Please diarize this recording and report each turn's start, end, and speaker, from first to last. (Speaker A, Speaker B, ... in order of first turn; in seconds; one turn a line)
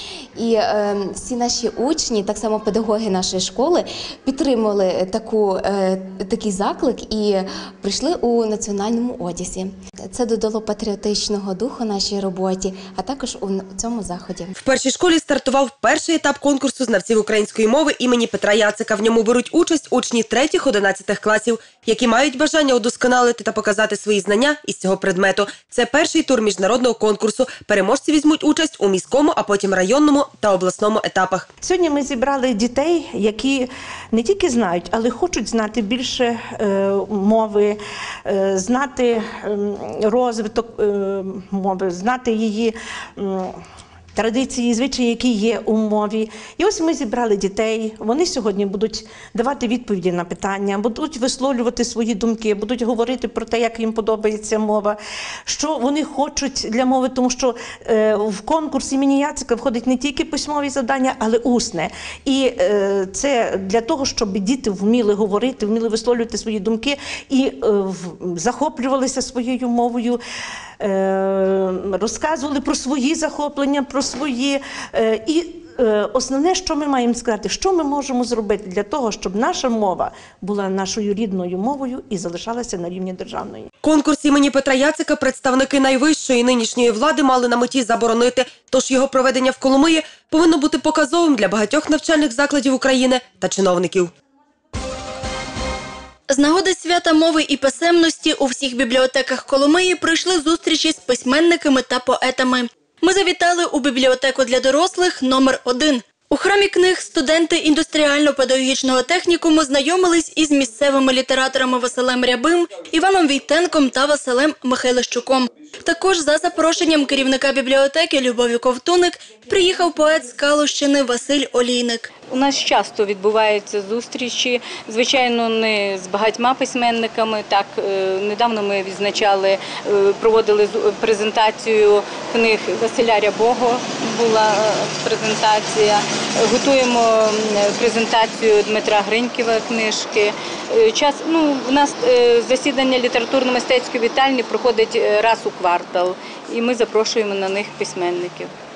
Speaker A: 0.4-14.5
Speaker B: 14.6-31.5
Speaker C: 31.6-43.6
Speaker C: 44.1-70.2
Speaker C: 70.8-83.7
Speaker B: 83.8-94.1
Speaker D: 96.3-122.1
Speaker E: 122.3-148.5